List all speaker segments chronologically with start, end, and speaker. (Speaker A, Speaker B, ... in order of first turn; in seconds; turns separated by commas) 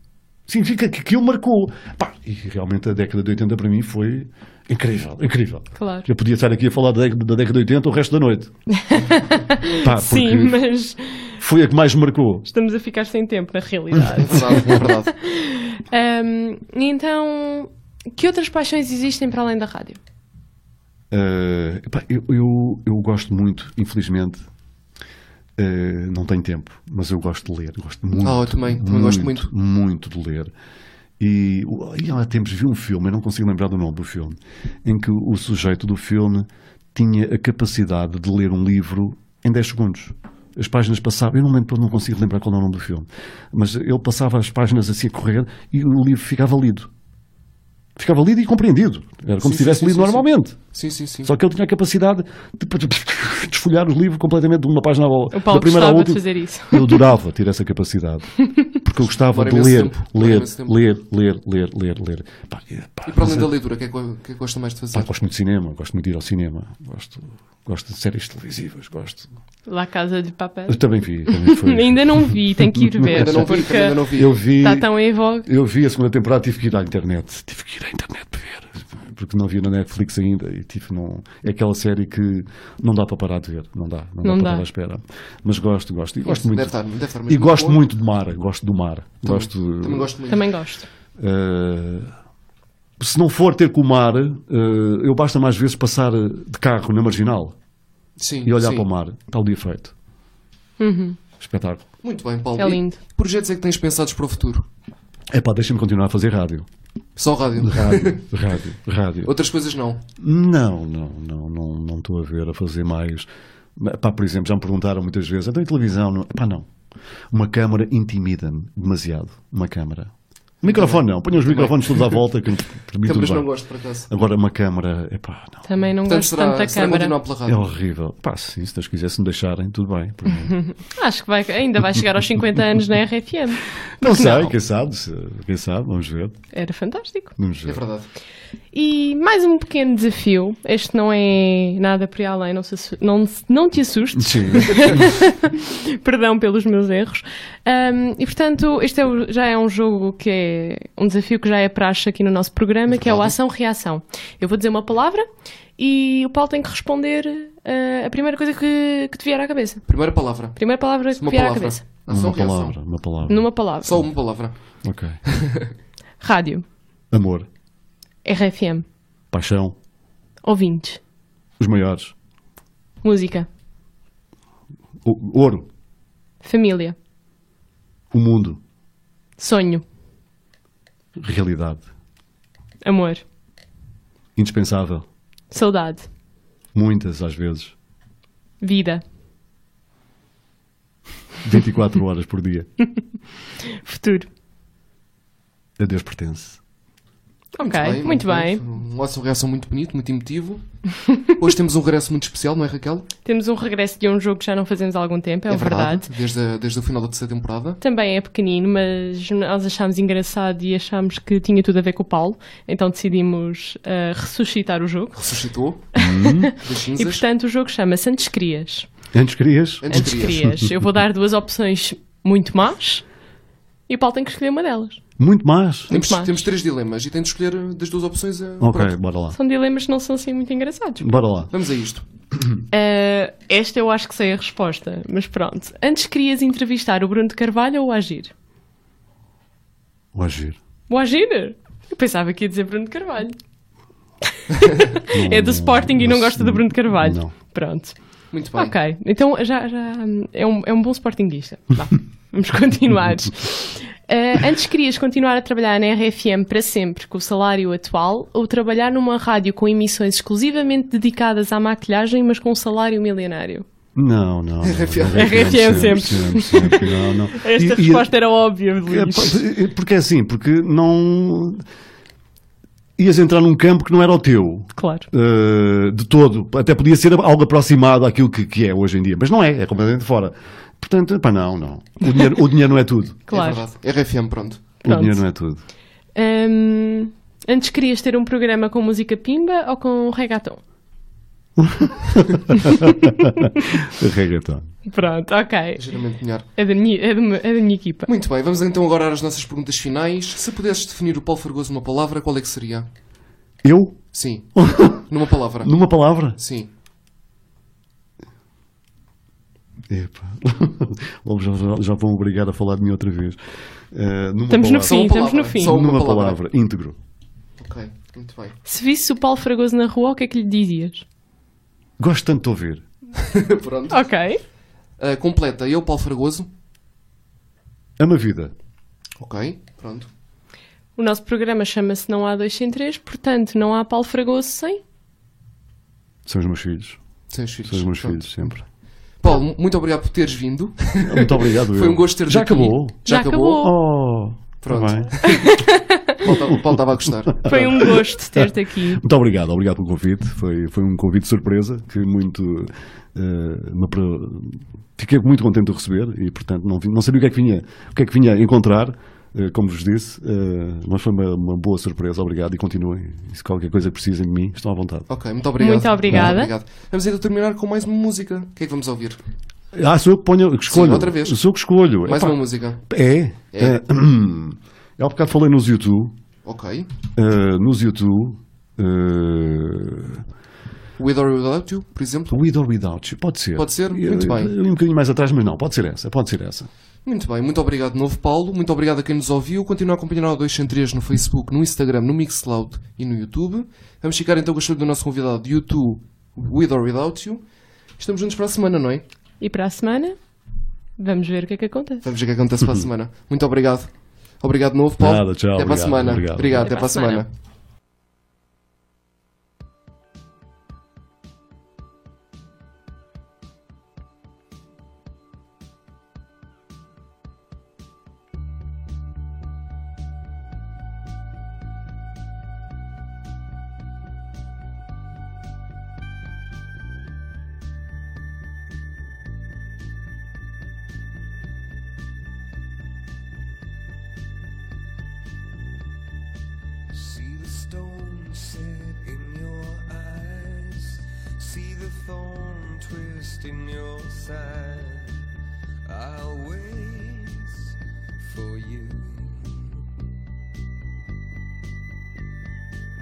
Speaker A: 0.5-8.5, Speaker B: 5.8-6.1, Speaker B: 8.8-11.4, Speaker A: 9.7-10.6, Speaker A: 11.4-12.5, Speaker B: 12.5-20.0, Speaker C: 14.2-15.1, Speaker A: 21.1-24.4, Speaker A: 25.6-30.5, Speaker C: 28.2-29.5, Speaker A: 31.2-46.9, Speaker A: 48.0-50.6, Speaker C: 49.4-51.3, Speaker A: 51.2-63.5, Speaker B: 55.3-57.1, Speaker C: 59.0-60.8, Speaker C: 63.0-65.1, Speaker A: 64.9-69.3, Speaker B: 69.7-75.5, Speaker A: 70.7-74.9, Speaker C: 73.0-74.3, Speaker A: 75.4-86.7, Speaker B: 84.2-84.7, Speaker C: 86.2-87.8, Speaker A: 87.3-90.1, Speaker C: 89.2-90.5, Speaker B: 90.3-90.9, Speaker A: 91.2-92.1, Speaker A: 93.0-97.5, Speaker C: 98.2-98.8, Speaker A: 98.4-99.9, Speaker B: 100.8-101.2, Speaker A: 101.4-101.8, Speaker C: 102.0-104.7, Speaker B: 102.6-103.0, Speaker A: 105.3-106.7, Speaker C: 107.2-108.3, Speaker A: 107.6-109.3, Speaker C: 109.2-110.0, Speaker A: 110.2-116.7, Speaker A: 117.3-123.5, Speaker C: 120.6-122.3, Speaker C: 123.0-124.1, Speaker A: 124.1-125.6, Speaker B: 125.6-127.1, Speaker C: 126.0-127.6, Speaker A: 127.5-130.6, Speaker B: 130.6-134.5, Speaker A: 134.0-136.3, Speaker B: 136.5-137.3, Speaker A: 137.4-137.8, Speaker C: 137.7-138.1, Speaker B: 138.7-155.2, Speaker A: 144.2-145.1, Speaker C: 152.9-153.3, Speaker B: 155.8-159.8, Speaker C: 159.9-160.6, Speaker B: 160.6-161.8, Speaker C: 161.1-162.8, Speaker A: 162.1-163.5, Speaker B: 163.3-164.0, Speaker C: 163.8-164.5, Speaker A: 164.8-165.2, Speaker C: 165.3-165.7, Speaker B: 166.2-166.6, Speaker A: 167.1-167.5, Speaker B: 168.2-168.8, Speaker A: 169.3-169.8, Speaker B: 170.4-171.0, Speaker A: 171.6-172.1, Speaker B: 173.0-173.5, Speaker A: 175.0-175.7, Speaker B: 176.4-176.9, Speaker A: 178.1-178.6, Speaker B: 179.4-179.8, Speaker A: 181.2-181.8, Speaker B: 182.8-183.2, Speaker A: 184.3-185.0, Speaker B: 185.5-186.1, Speaker A: 186.7-187.7, Speaker B: 188.6-189.0, Speaker A: 191.4-192.7, Speaker B: 193.6-194.3, Speaker A: 195.8-196.6, Speaker B: 197.5-198.6, Speaker C: 197.6-200.6, Speaker C: 201.2-203.1, Speaker B: 203.2-206.1, Speaker C: 205.5-207.8, Speaker B: 207.8-215.4, Speaker C: 215.2-215.9, Speaker B: 215.9-218.9, Speaker A: 216.0-216.5, Speaker C: 216.6-217.2, Speaker A: 219.1-220.7, Speaker C: 219.8-220.5, Speaker B: 219.9-223.0, Speaker B: 223.9-225.0, Speaker A: 225.2-225.9, Speaker B: 225.9-226.3, Speaker C: 225.9-228.9, Speaker A: 228.6-229.3, Speaker B: 229.3-231.1, Speaker A: 231.0-231.5, Speaker C: 231.5-232.0, Speaker B: 232.7-238.3, Speaker A: 240.1-240.6, Speaker B: 240.9-243.4, Speaker B: 244.6-248.0, Speaker A: 245.1-247.3, Speaker C: 248.3-248.7, Speaker B: 248.5-263.6, Speaker A: 263.9-268.1, Speaker C: 264.6-266.0, Speaker B: 265.1-269.4, Speaker A: 268.9-271.6, Speaker A: 273.0-283.2, Speaker B: 274.8-275.1, Speaker B: 283.3-283.6, Speaker C: 283.3-284.7, Speaker A: 284.8-285.6, Speaker B: 284.9-285.2, Speaker B: 286.1-290.6, Speaker A: 291.6-294.7, Speaker B: 294.8-295.8, Speaker C: 295.8-296.5, Speaker B: 296.5-298.1, Speaker C: 298.1-302.9, Speaker A: 303.6-304.0, Speaker C: 304.1-305.7, Speaker A: 304.5-305.0, Speaker A: 305.6-306.4, Speaker C: 306.3-306.7, Speaker A: 309.9-313.4, Speaker A: 313.9-315.0, Speaker B: 314.5-315.7, Speaker C: 314.8-316.4, Speaker A: 315.6-316.9, Speaker C: 317.6-318.6, Speaker B: 318.6-321.0, Speaker A: 322.0-322.8, Speaker C: 323.2-324.0, Speaker B: 323.9-324.4, Speaker C: 325.0-326.5, Speaker A: 328.0-328.5, Speaker C: 329.2-330.1, Speaker B: 330.9-334.8, Speaker A: 336.2-337.0, Speaker C: 337.3-338.2, Speaker A: 337.6-338.6, Speaker C: 339.2-343.7, Speaker A: 341.0-345.1, Speaker B: 343.1-343.7, Speaker C: 344.6-345.5, Speaker B: 345.2-346.2, Speaker C: 346.1-347.9, Speaker A: 347.2-365.1, Speaker B: 347.4-349.0, Speaker C: 365.1-369.2, Speaker B: 365.6-366.5, Speaker A: 369.7-376.1, Speaker C: 370.7-371.4, Speaker C: 372.0-372.8, Speaker C: 373.5-373.8, Speaker C: 376.4-376.9, Speaker A: 377.1-380.2, Speaker C: 381.0-382.4, Speaker A: 382.3-386.7, Speaker C: 383.6-384.5, Speaker C: 387.0-399.0, Speaker B: 399.4-400.2, Speaker B: 401.0-402.0, Speaker C: 402.0-407.3, Speaker A: 405.0-406.7, Speaker B: 406.6-407.2, Speaker D: 436.9-445.2, Speaker D: 445.8-449.9